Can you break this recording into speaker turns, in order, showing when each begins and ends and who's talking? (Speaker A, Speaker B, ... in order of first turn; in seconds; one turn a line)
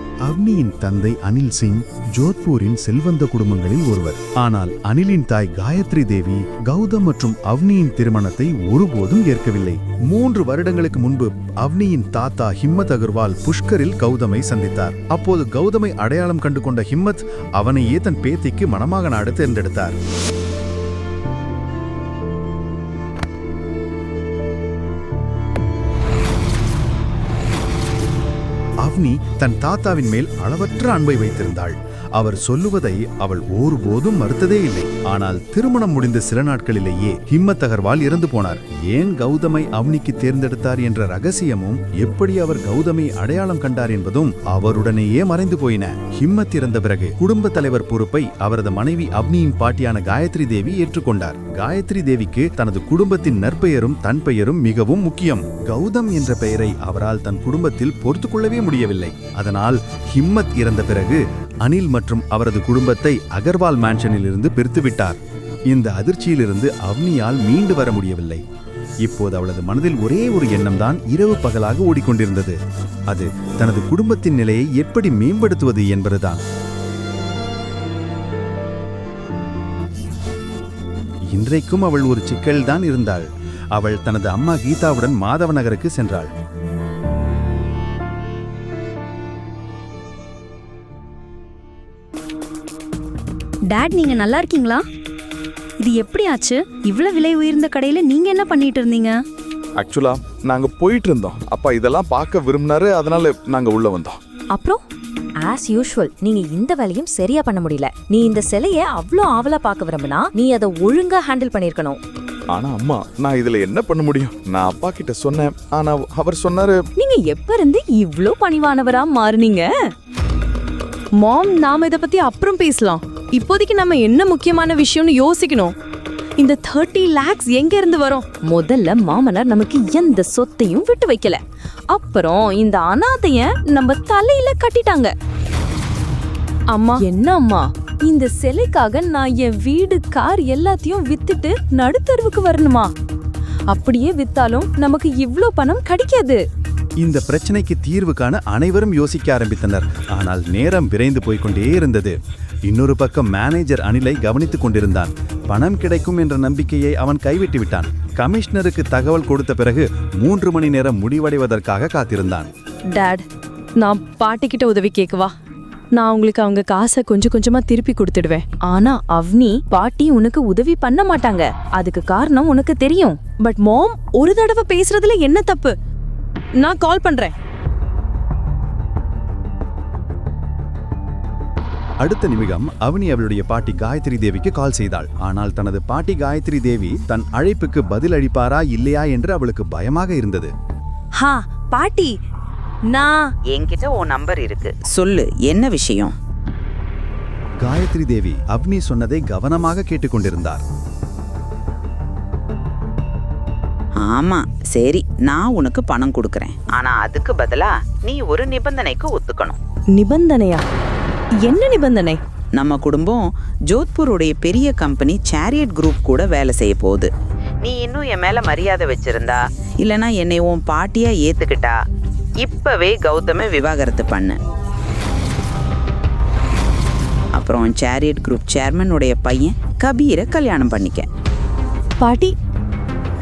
Speaker A: 0.2-20.0
Speaker A: 28.8-65.2
Speaker A: 65.7-68.4
Speaker A: 69.0-72.6
Speaker A: 73.1-76.4
Speaker A: 81.3-86.3
Speaker B: 93.7-94.7
Speaker B: 95.9-98.1
Speaker C: 99.8-104.2
Speaker D: 104.5-104.8
Speaker D: 105.4-112.0
Speaker C: 112.5-116.8
Speaker D: 117.0-119.7
Speaker E: 121.2-125.8
Speaker E: 126.4-128.2
Speaker D: 128.5-131.4
Speaker D: 131.9-135.1
Speaker D: 137.0-142.9
Speaker D: 143.7-146.4
Speaker A: 147.0-152.2
Speaker A: 152.7-162.5
Speaker E: 162.9-163.2
Speaker E: 163.8-165.3
Speaker E: 165.9-168.5
Speaker D: 168.6-173.5
Speaker E: 173.5-175.8
Speaker E: 176.6-177.3
Speaker A: 182.0-190.5
Speaker E: 191.2-192.1
Speaker E: 192.9-193.2
Speaker F: 193.5-196.1
Speaker A: 197.6-200.6
Speaker F: 204.0-209.6
Speaker E: 209.9-210.6
Speaker E: 211.4-212.2
Speaker F: 212.6-217.1
Speaker F: 217.6-221.7
Speaker F: 222.4-224.4
Speaker F: 227.4-231.1
Speaker E: 232.0-232.3